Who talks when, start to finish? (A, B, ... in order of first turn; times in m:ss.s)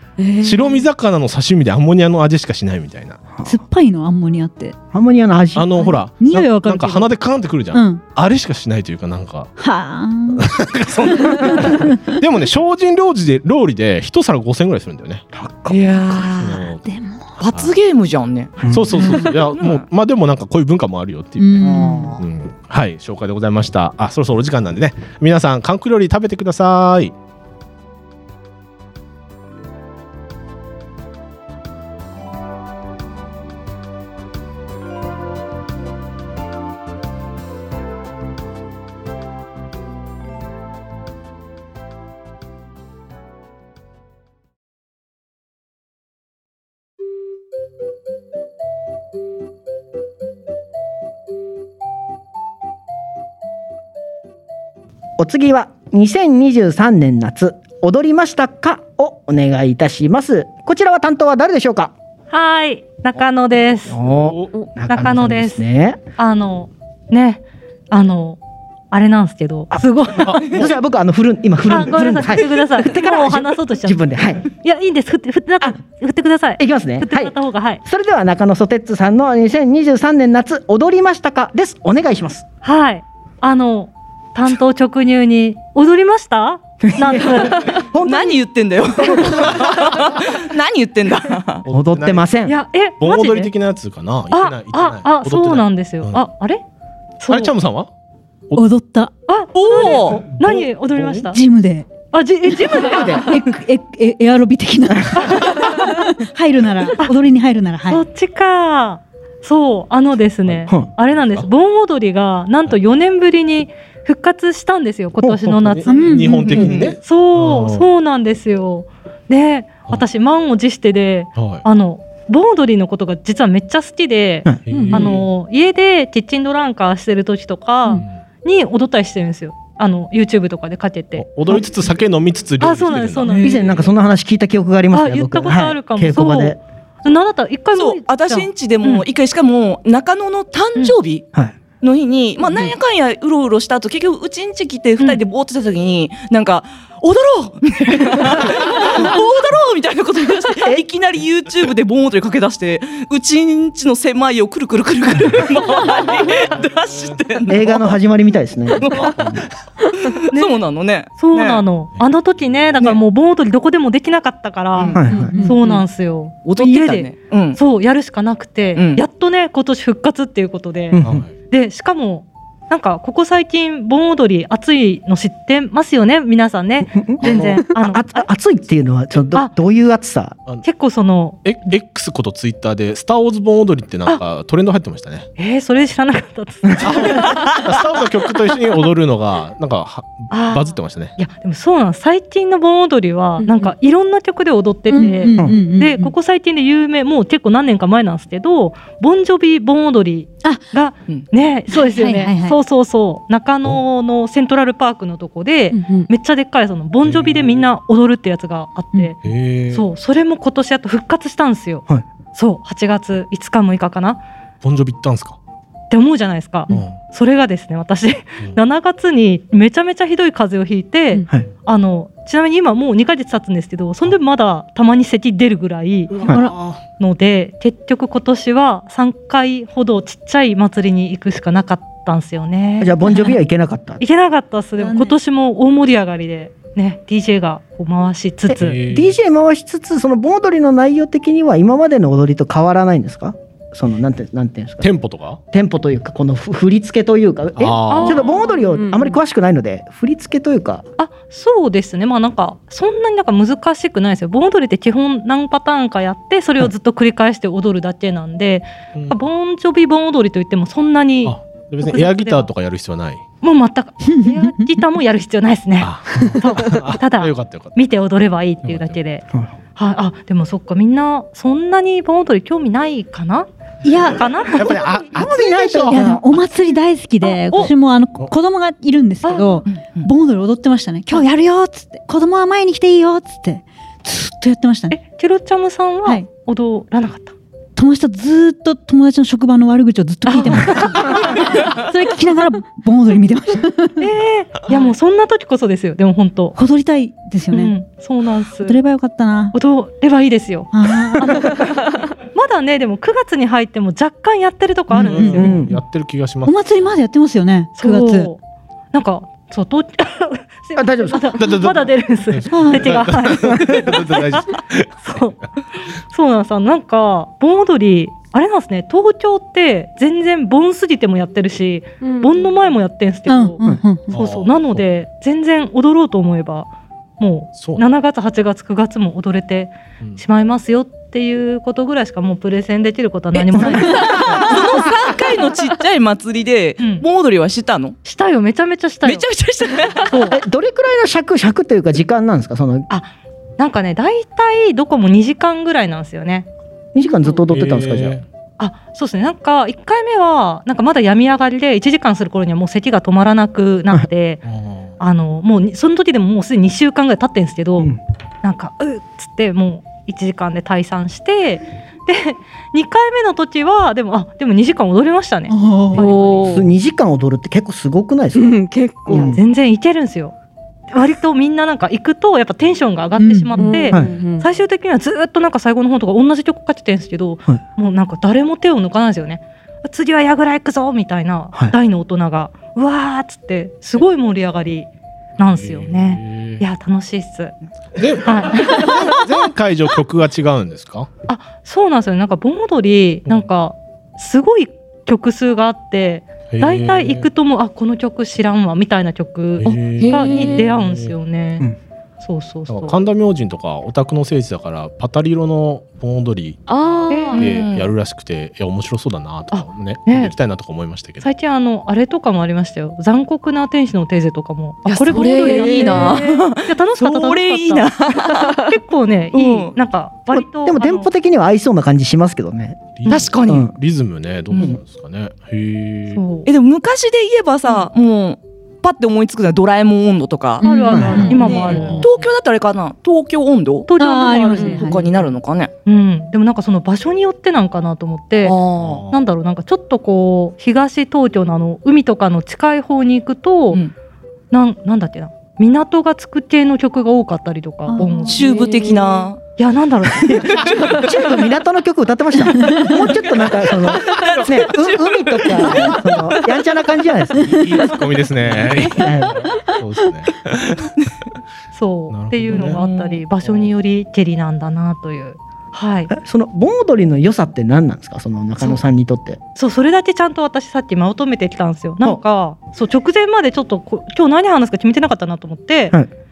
0:00.2-0:00.9 A
0:00.4-0:03.3 B
0:03.4-0:04.8 C
0:04.9-0:05.9 D
0:05.6-0:09.5 B
0:05.7-0:07.1 C
0:07.7-0:08.0 C
0:09.6-0:10.5 C
0:10.4-0:15.2 B
0:11.1-0:12.2 C
0:15.3-0:15.8 D
0:15.7-0:16.7 E
0:16.4-0:16.8 B
0:16.8-0:17.4 C
0:17.4-0:19.8 E
0:18.6-0:18.9 D
0:18.7-0:27.1 B
0:21.4-0:22.2 C
0:21.6-0:22.2 D
0:55.2-1:01.9 D
1:02.3-1:04.0 F
1:03.9-1:06.0 D
1:04.1-1:04.5 B
1:04.9-1:05.6 F
1:06.2-1:08.4 F
1:08.9-1:10.6 F
1:09.7-1:14.4 D
1:10.2-1:10.6 B
1:11.7-1:17.8 F
1:16.6-1:22.4 D
1:22.6-1:27.8 F
1:26.8-1:28.4 D
1:28.0-1:31.6 E
1:31.7-1:32.3 B
1:31.7-1:32.6 D
1:32.4-1:33.5 F
1:33.0-1:36.2 B
1:34.3-1:36.6 F
1:37.2-1:37.5 F
1:37.3-1:37.9 B
1:38.6-1:39.1 C
1:39.3-1:41.4 F
1:39.5-1:40.3 E
1:40.3-1:41.3 B
1:41.3-1:41.9 C
1:42.1-1:43.5 F
1:42.9-1:43.2 D
1:43.0-1:48.0 C
1:45.2-1:45.7 F
1:47.9-2:11.6 F
1:50.5-1:51.5 B
1:55.2-1:55.5 D
1:55.5-1:57.9 B
1:55.9-1:56.8 C
1:56.5-1:56.9 E
2:01.4-2:01.6 B
2:04.6-2:05.3 B
2:04.7-2:05.1 A
2:07.9-2:08.2 B
2:11.2-2:13.9 B
2:12.6-2:13.6 F
2:13.4-2:16.6 D
2:14.9-2:19.1 F
2:17.7-2:21.3 E
2:21.8-2:37.9 E
2:36.2-2:37.2 B
2:37.5-2:39.4 D
2:38.8-2:41.6 E
2:40.3-2:40.6 F
2:41.2-2:58.2 F
2:44.7-2:45.8 E
2:44.9-2:45.4 D
2:45.1-2:45.6 C
2:46.4-2:47.6 E
2:48.7-2:49.0 E
2:50.9-2:51.2 D
2:51.0-2:51.3 B
2:57.0-3:00.4 D
2:57.2-2:57.6 B
3:00.6-3:01.4 F
3:01.4-3:05.3 B
3:05.4-3:07.6 F
3:06.8-3:11.1 B
3:10.3-3:29.2 F
3:14.9-3:16.1 C
3:21.7-3:22.6 C
3:25.7-3:26.1 A
3:27.0-3:27.6 B
3:29.2-3:29.8 B
3:29.7-3:34.2 F
3:34.6-3:35.4 B
3:35.9-3:46.2 F
3:36.7-3:37.0 B
3:46.1-3:46.8 B
3:46.2-3:46.6 C
3:47.0-3:53.3 F
3:52.8-3:54.0 D
3:54.0-3:58.8 F
3:54.8-3:55.1 C
3:58.5-4:04.9 D
3:58.5-3:59.1 B
4:04.8-4:05.4 B
4:05.5-4:10.8 D
4:07.6-4:08.2 B
4:07.9-4:09.2 A
4:11.0-4:22.5 F
4:21.2-4:23.2 B
4:23.4-4:33.5 F
4:24.0-4:24.7 C
4:25.8-4:27.8 B
4:28.6-4:29.0 B
4:33.8-4:34.3 C
4:34.1-4:35.0 F
4:34.5-4:36.1 B
4:34.7-4:36.3 D
4:35.9-4:45.0 C
4:37.2-4:37.7 F
4:39.2-4:39.6 F
4:39.6-4:40.1 E
4:44.9-4:47.3 F
4:47.8-4:54.1 C
4:50.3-4:51.5 F
4:54.0-4:56.6 F
4:56.6-4:57.7 C
4:57.5-4:58.8 F
4:58.6-4:59.6 C
4:59.5-5:05.5 F
5:00.7-5:01.7 C
5:04.9-5:05.6 C
5:05.0-5:06.9 B
5:05.4-5:05.8 D
5:06.4-5:08.3 C
5:07.8-5:08.4 F
5:08.9-5:15.4 F
5:10.8-5:11.3 D
5:11.4-5:15.2 B
5:12.5-5:12.9 C
5:16.1-5:23.6 F
5:22.0-5:22.5 A
5:23.3-5:24.2 C
5:24.1-5:24.8 B
5:24.1-5:26.7 F
5:27.2-5:34.6 F
5:27.6-5:27.8 B
5:33.3-5:38.0 E
5:33.6-5:34.4 D
5:36.8-5:37.0 F
5:38.0-5:39.3 F
5:39.0-5:40.2 E
5:39.8-5:40.4 F
5:40.2-5:42.9 D
5:42.9-5:46.5 F
5:46.9-5:48.2 D
5:47.5-5:48.2 B
5:48.6-5:54.4 F
5:54.4-5:54.9 B
5:55.0-5:57.9 F
5:58.4-6:06.5 F
6:05.5-6:06.1 C
6:05.9-6:06.7 A
6:06.5-6:09.4 D
6:08.3-6:09.4 A
6:09.1-6:10.3 F
6:10.9-6:27.6 F
6:13.2-6:13.7 C
6:13.6-6:14.4 A
6:25.4-6:26.6 B
6:28.0-6:31.1 B
6:28.2-6:29.3 F
6:31.3-6:41.7 F
6:36.5-6:37.3 B
6:39.6-6:41.1 B
6:40.0-6:40.7 A
6:42.2-6:43.0 F
6:42.7-6:46.6 B
6:46.7-6:47.5 A
6:47.1-6:47.5 F
6:47.3-6:51.3 B
6:47.4-6:47.9 E
6:49.5-6:50.3 F
6:51.2-7:01.1 F
6:54.8-6:58.6 E
6:55.1-6:56.3 A
6:59.3-6:59.7 E
7:00.3-7:02.9 D
7:03.0-7:06.2 B
7:03.1-7:03.7 E
7:03.4-7:03.7 D
7:06.1-7:06.5 F
7:06.4-7:13.9 E
7:07.6-7:07.9 F
7:10.6-7:11.9 C
7:10.6-7:12.2 F
7:10.9-7:11.3 D
7:11.6-7:12.1 B
7:13.9-7:15.0 F
7:14.0-7:15.1 C
7:14.6-7:15.7 E
7:15.9-7:23.8 F
7:18.4-7:19.0 E
7:18.8-7:19.2 B
7:24.5-7:31.2 F
7:27.9-7:28.6 C
7:28.2-7:29.4 E
7:28.6-7:29.0 A
7:30.4-7:31.0 E
7:30.4-7:37.7 D
7:32.6-7:32.9 C
7:33.8-7:36.3 E
7:37.4-7:40.9 B
7:38.5-7:39.5 D
7:41.7-7:46.1 F
7:42.1-7:42.8 B
7:42.5-7:43.2 E
7:43.4-7:43.7 B
7:46.1-7:49.4 D
7:49.6-7:56.0 F